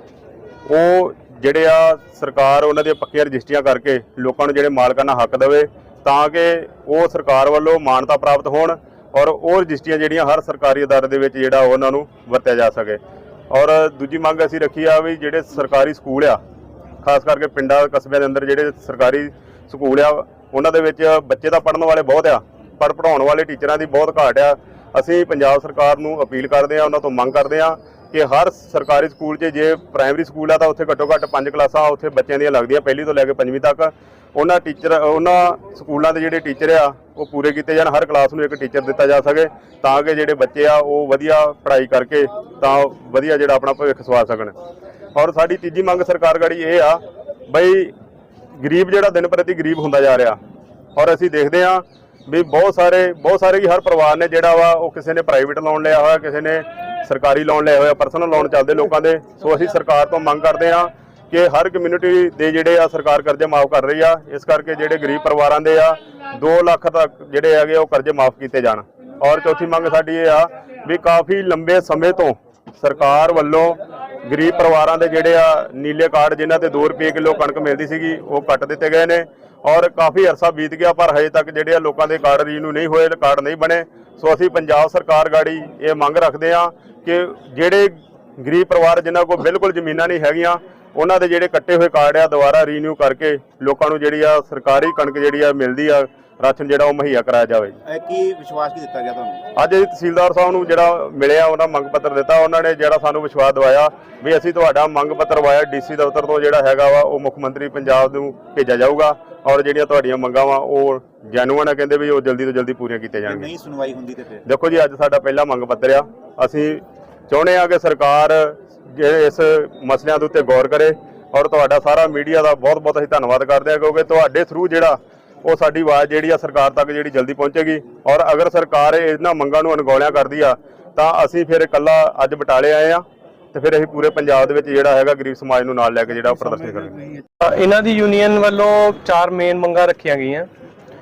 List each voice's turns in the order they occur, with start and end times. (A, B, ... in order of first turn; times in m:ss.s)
0:00.7-0:13.0 A
0:13.5-0:16.4 A
0:17.0-0:44.5 A
0:45.1-0:47.9 A
0:48.5-0:50.4 A
0:51.0-1:37.7 A
1:37.8-1:39.4 B
1:39.6-1:53.5 A
1:53.3-1:54.4 B
1:54.4-2:17.1 A
2:17.4-2:20.5 C